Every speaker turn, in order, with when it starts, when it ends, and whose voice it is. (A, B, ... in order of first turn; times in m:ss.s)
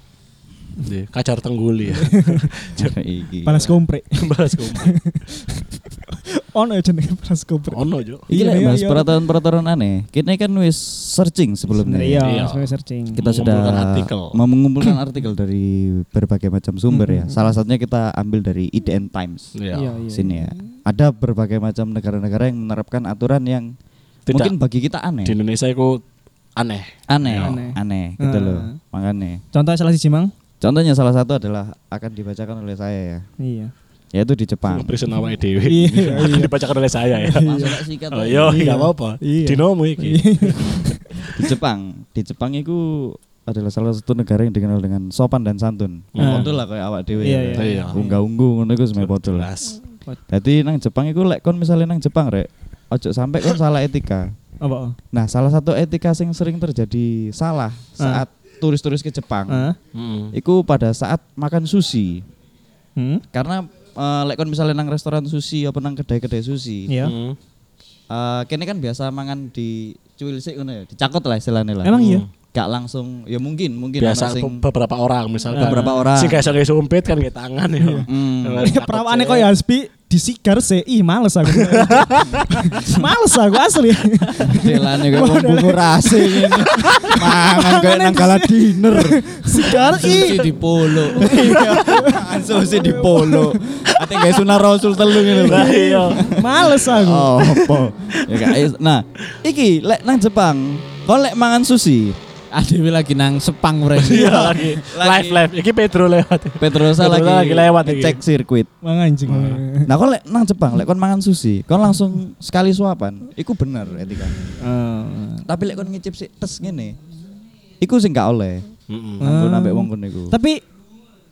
0:00.8-0:03.0 A
0:01.9-0:02.5 B
0:02.8-0:03.7 C
0:03.4-0:09.1 B
0:03.6-0:04.9 A
0:07.7-0:08.3 A
0:08.3-0:12.3 C
0:11.8-0:13.2 B
0:12.2-0:14.4 A
0:13.1-0:19.4 C
0:16.9-0:17.5 B
0:19.5-0:20.0 A
0:19.7-0:20.7 B
0:20.1-0:23.7 C
0:24.3-0:24.5 A
0:24.3-0:25.4 C
0:25.2-0:26.0 A
0:26.6-0:27.6 A
0:27.1-0:29.4 C
0:27.4-0:28.8 B
0:29.5-0:30.3 B
0:30.6-0:33.2 C
0:33.4-0:33.7 B
0:34.1-0:35.0 C
0:34.7-0:41.3 A
0:35.2-0:36.5 B
0:37.1-0:37.8 B
0:37.4-0:38.6 C
0:38.4-0:41.3 B
0:41.3-0:49.5 C
0:46.1-0:46.5 A
0:46.2-0:46.5 B
0:47.2-0:48.2 B
0:47.6-0:48.0 A
0:49.0-0:49.8 A
0:50.3-0:54.3 C
0:54.6-0:55.0 B
0:55.1-0:59.7 C
0:58.0-0:58.2 B
0:59.5-0:59.8 B
0:59.9-1:00.3 A
1:00.3-1:02.2 C
1:03.0-1:03.2 B
1:03.3-1:07.0 C
1:06.9-1:07.1 B
1:07.0-1:07.4 A
1:08.1-1:14.6 C
1:11.8-1:12.2 B
1:11.9-1:12.3 A
1:14.0-1:19.5 A
1:15.5-1:16.0 B
1:15.6-1:16.4 C
1:17.8-1:18.1 B
1:18.0-1:18.7 C
1:18.6-1:30.5 B
1:21.6-1:22.5 A
1:22.2-1:23.1 C
1:24.4-1:29.7 C
1:24.5-1:24.9 D
1:29.6-1:31.6 D
1:31.1-1:33.6 B
1:31.2-1:42.2 C
1:35.2-1:37.4 B
1:35.4-1:36.7 A
1:37.4-1:38.6 A
1:42.5-1:44.8 D
1:44.0-1:48.2 A
1:44.1-1:45.5 C
1:46.6-1:48.7 C
1:48.8-1:49.9 B
1:49.3-1:49.6 A
1:49.8-1:54.5 C
1:54.6-1:55.4 B
1:55.4-1:57.0 C
1:57.8-1:58.6 C
1:58.9-1:59.2 A
1:59.2-2:00.3 C
1:59.2-2:00.6 B